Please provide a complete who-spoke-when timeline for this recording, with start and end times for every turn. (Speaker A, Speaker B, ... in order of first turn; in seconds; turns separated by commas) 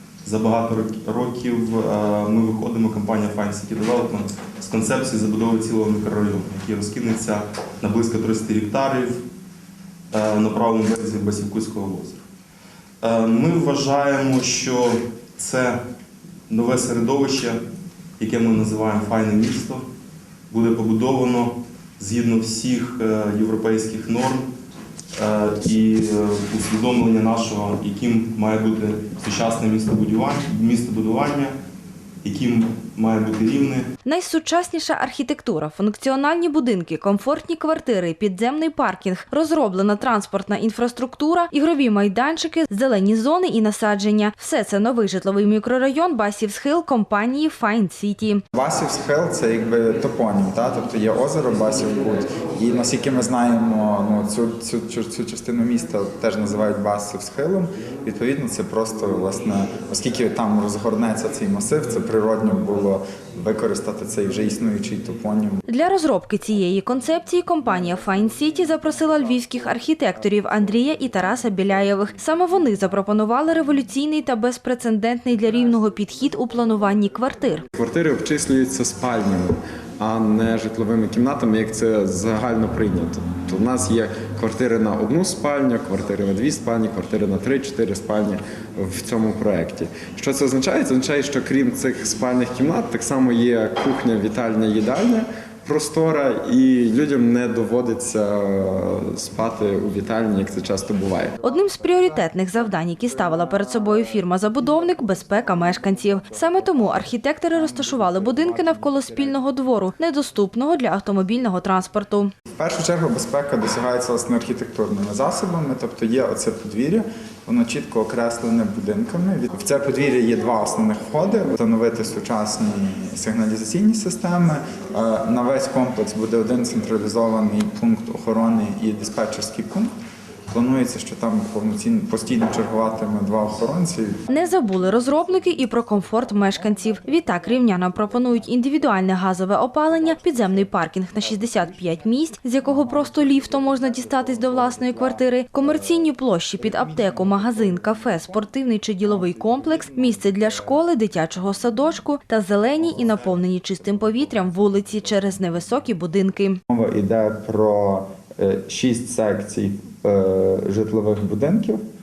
Speaker A: 0.2-9.2, Speaker A: 10.1-12.2, Speaker A: 13.0-15.8, Speaker A: 16.5-17.6, Speaker A: 18.2-19.8, Speaker A: 20.5-24.5, Speaker A: 25.1-31.5, Speaker A: 32.2-33.9, Speaker B: 34.0-48.4, Speaker C: 48.5-65.6, Speaker B: 65.7-77.7, Speaker D: 77.7-101.3, Speaker B: 101.4-112.3, Speaker C: 112.6-129.9, Speaker C: 130.5-134.2, Speaker B: 134.3-156.6, Speaker C: 156.7-161.8